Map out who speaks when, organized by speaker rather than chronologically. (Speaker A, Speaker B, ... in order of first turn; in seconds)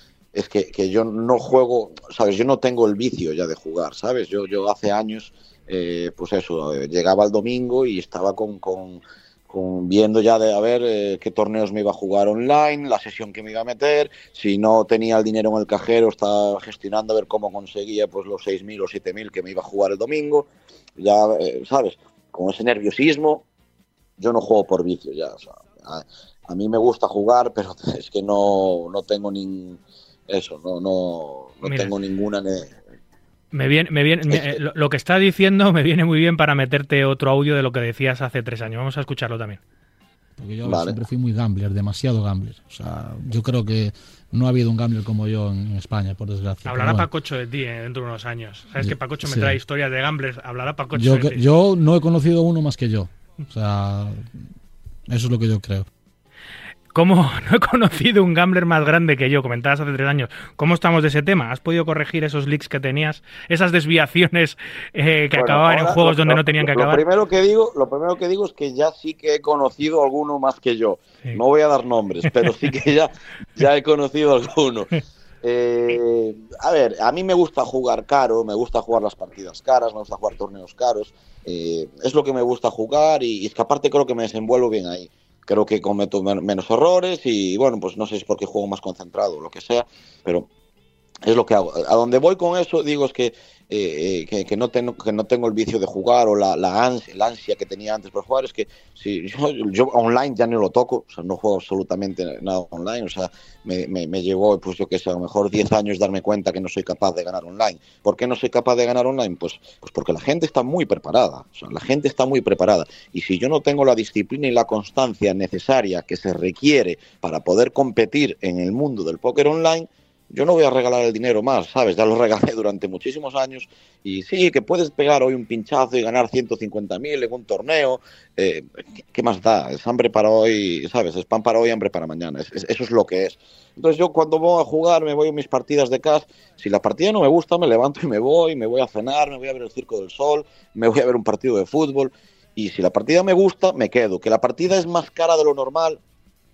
Speaker A: 0.3-23.4, 24.2-32.8, 34.3-34.6, 40.6-41.0, 65.3-74.9, 75.4-90.5, 91.2-146.0
Speaker B: 31.6-31.9, 33.5-39.6, 46.6-51.4, 56.9-67.0
Speaker C: 40.4-47.1, 48.8-49.5, 50.9-54.4, 55.1-55.9